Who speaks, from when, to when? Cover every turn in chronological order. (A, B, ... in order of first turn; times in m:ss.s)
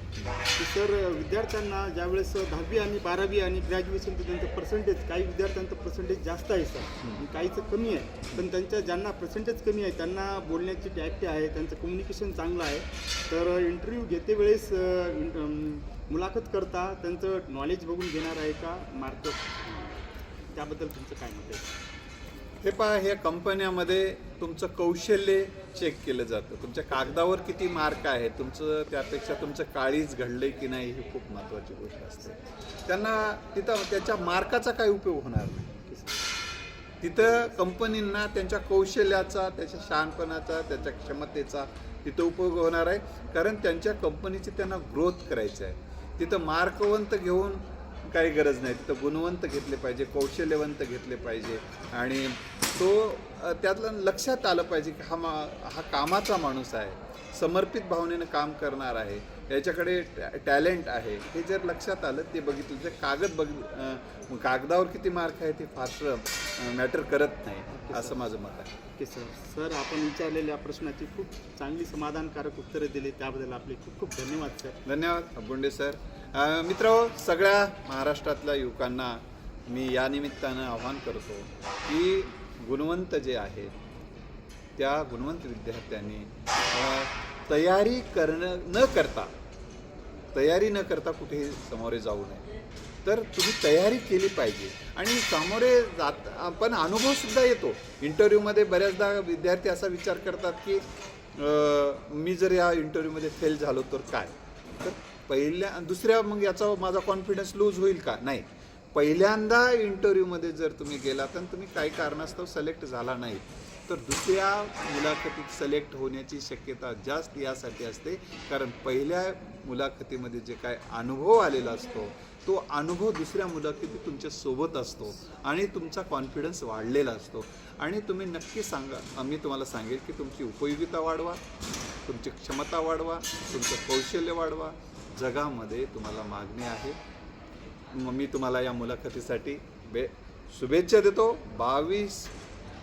0:00.6-0:21.7 A
0:22.6-0:35.8 B
0:35.9-0:36.2 A
0:37.0-1:08.7 B
1:07.7-1:08.2 A
1:09.0-1:14.8 A
1:14.8-1:23.7 B
1:24.8-1:29.3 B
1:30.3-1:32.4 B
1:33.0-1:40.8 B
1:41.3-2:11.4 B
2:12.0-2:17.0 B
2:17.9-2:22.3 B